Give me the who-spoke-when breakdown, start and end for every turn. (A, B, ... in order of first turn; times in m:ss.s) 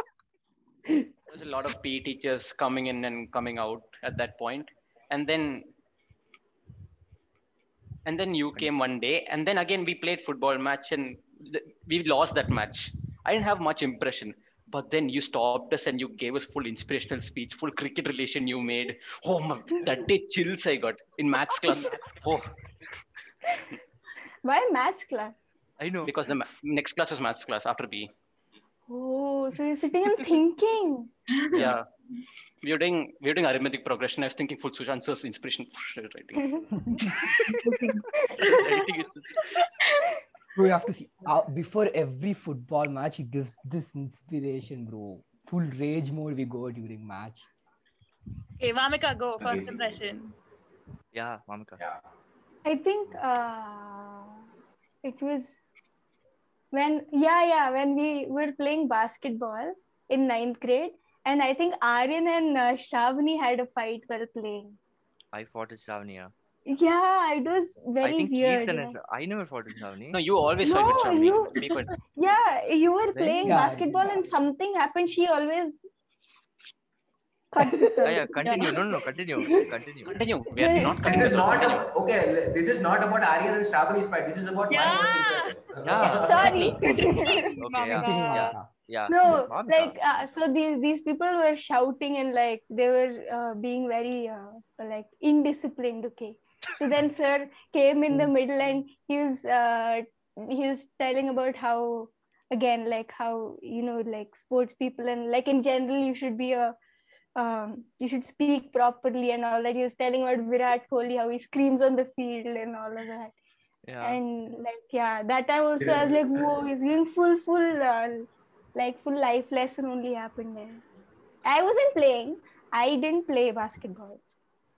0:01.3-0:05.7 A
0:08.0-0:22.4 A
0:21.9-0:22.4 B
0:24.4-0:25.5 C
0:25.8-0:26.1 B
0:26.0-0:28.1 A
0:28.9-0:31.5 C
0:31.4-0:31.7 D
0:31.5-0:31.8 A
0:31.5-0:31.8 B
0:32.6-0:37.3 A
0:36.7-0:37.2 E
0:37.4-0:38.8 D
0:38.3-0:39.6 B
0:39.6-0:40.1 D
0:40.5-0:47.4 E
0:48.6-0:50.3 D
0:49.4-0:50.1 F
0:51.1-0:51.8 B
0:51.8-0:52.0 F
0:52.6-0:54.4 C
0:55.0-0:55.7 C
0:56.7-1:04.8 C
1:05.3-1:06.3 B
1:06.7-1:09.0 C
1:08.0-1:10.2 B
1:10.1-1:11.9 A
1:10.6-1:15.8 C
1:13.1-1:13.6 B
1:13.4-1:14.2 E
1:17.5-1:19.7 C
1:18.0-1:20.2 B
1:18.4-1:18.7 D
1:20.0-1:21.9 A
1:20.6-1:21.3 C
1:20.8-1:27.1 F
1:24.7-1:28.6 D
1:25.8-1:30.2 B
1:26.2-1:27.5 C
1:27.9-1:28.7 E
1:29.1-1:46.7 C
1:47.4-1:53.4 C
1:53.8-1:54.2 B
1:54.0-2:00.8 C
1:55.8-1:56.6 F
2:01.4-2:04.4 C